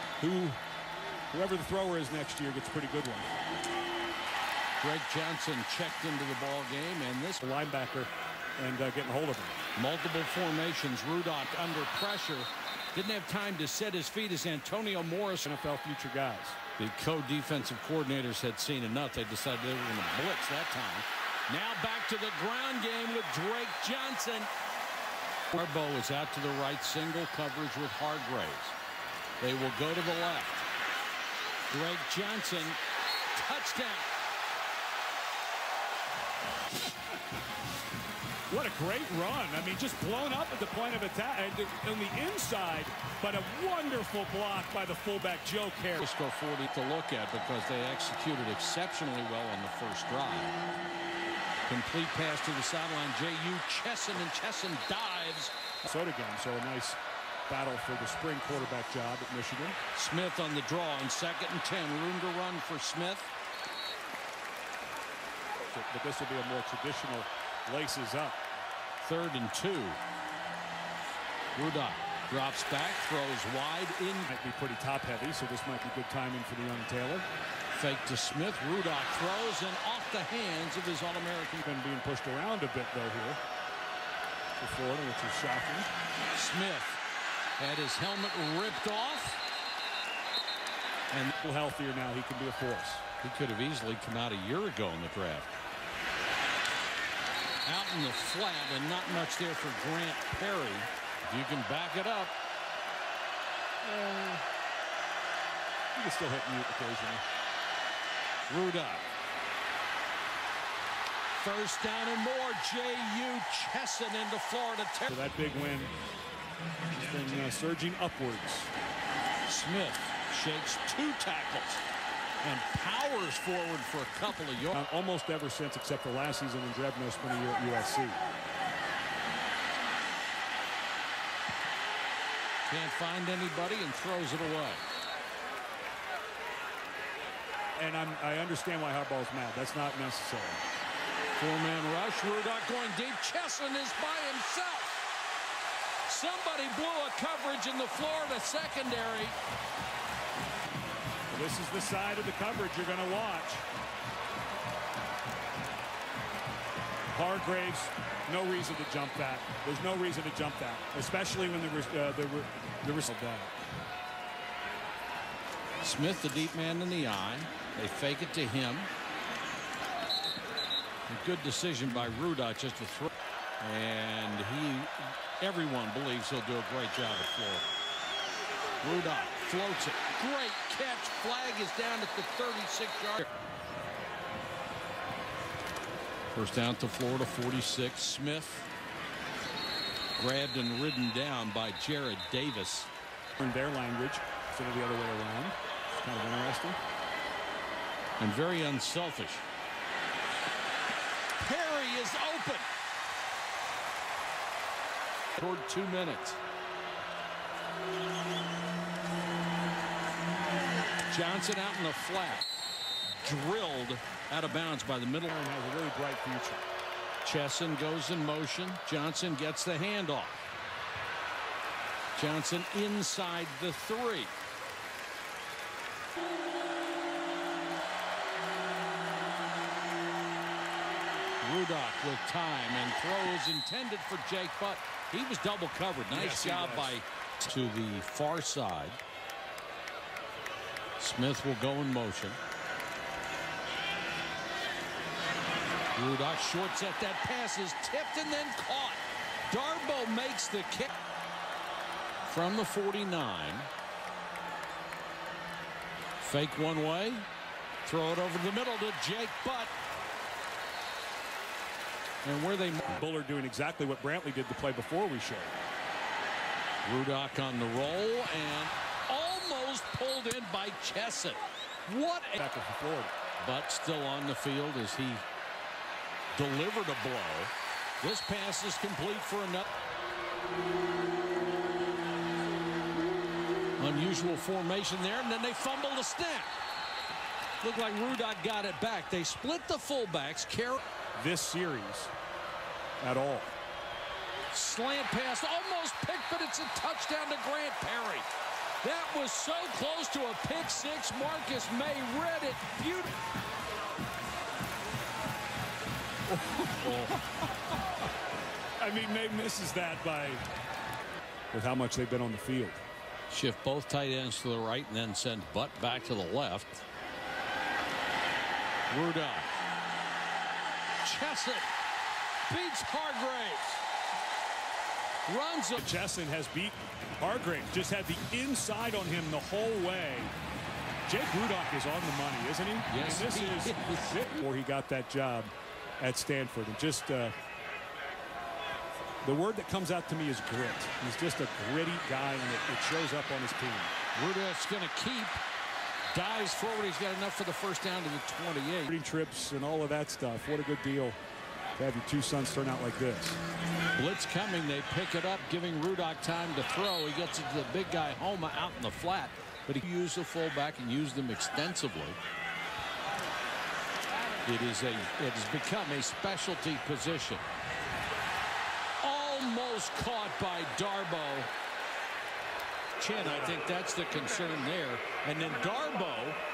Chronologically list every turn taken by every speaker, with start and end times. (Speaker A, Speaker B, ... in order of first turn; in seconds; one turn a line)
Speaker A: 0.2-0.6
Speaker A: 1.3-3.3
Speaker B: 4.8-7.5
Speaker A: 7.4-9.6
Speaker B: 9.8-15.5
Speaker A: 15.4-16.6
Speaker B: 16.8-24.5
Speaker B: 25.5-28.8
Speaker B: 29.4-30.6
Speaker B: 31.7-32.8
Speaker B: 33.3-34.0
Speaker A: 38.5-46.1
Speaker B: 46.0-50.5
Speaker B: 51.7-55.5
Speaker A: 55.8-59.8
Speaker B: 59.9-63.3
Speaker A: 65.7-68.4
Speaker B: 69.0-70.0
Speaker B: 71.5-74.3
Speaker A: 74.3-77.2
Speaker B: 77.7-81.6
Speaker A: 81.6-83.4
Speaker A: 84.6-85.9
Speaker B: 86.3-87.0
Speaker B: 87.6-89.4
Speaker A: 91.3-93.0
Speaker B: 93.2-95.5
Speaker B: 97.6-102.3
Speaker A: 103.8-104.4
Speaker A: 105.9-107.2
Speaker B: 108.5-109.0
Speaker B: 111.4-115.2
Speaker A: 115.1-115.9
Speaker A: 116.9-118.7
Speaker B: 119.5-121.8
Speaker B: 122.4-124.8
Speaker A: 124.7-128.2
Speaker B: 132.7-134.8
Speaker A: 137.8-140.6
Speaker B: 141.3-144.9
Speaker B: 146.1-149.3
Speaker A: 151.3-153.6
Speaker A: 157.1-163.6
Speaker B: 165.8-168.9
Speaker B: 171.1-173.1
Speaker B: 173.6-177.7
Speaker B: 178.8-183.3
Speaker B: 186.3-188.7
Speaker B: 190.2-192.9
Speaker A: 193.4-196.8
Speaker B: 198.2-199.4
Speaker B: 201.4-202.7
Speaker B: 205.4-206.4
Speaker B: 211.1-212.5
Speaker B: 213.2-215.3
Speaker A: 215.3-216.6
Speaker B: 217.2-220.4
Speaker B: 222.1-224.3
Speaker B: 231.4-239.0
Speaker A: 236.1-237.0
Speaker B: 241.0-242.4
Speaker B: 245.9-250.9
Speaker B: 252.2-253.7
Speaker B: 256.2-257.3
Speaker B: 257.8-259.7
Speaker B: 262.2-263.0
Speaker A: 262.9-265.5
Speaker B: 266.8-272.4
Speaker A: 272.4-273.1
Speaker B: 273.4-275.2
Speaker B: 276.3-279.6
Speaker B: 283.8-286.5
Speaker B: 287.6-290.8
Speaker A: 291.1-292.1
Speaker A: 293.0-293.5
Speaker B: 294.5-298.3
Speaker B: 298.8-303.1
Speaker A: 306.3-307.2
Speaker B: 306.8-307.1
Speaker A: 308.8-310.4
Speaker A: 311.5-312.8
Speaker B: 313.3-316.8
Speaker B: 318.9-319.5
Speaker B: 321.0-321.7
Speaker B: 322.5-323.8
Speaker B: 325.2-325.9
Speaker A: 325.8-330.3
Speaker A: 331.1-337.3
Speaker B: 332.9-334.3
Speaker A: 339.2-343.9
Speaker B: 344.1-345.4
Speaker B: 346.1-348.9
Speaker A: 348.9-351.2
Speaker A: 351.8-353.4
Speaker B: 353.9-362.2
Speaker B: 364.4-367.4
Speaker B: 369.0-371.5
Speaker B: 373.0-376.4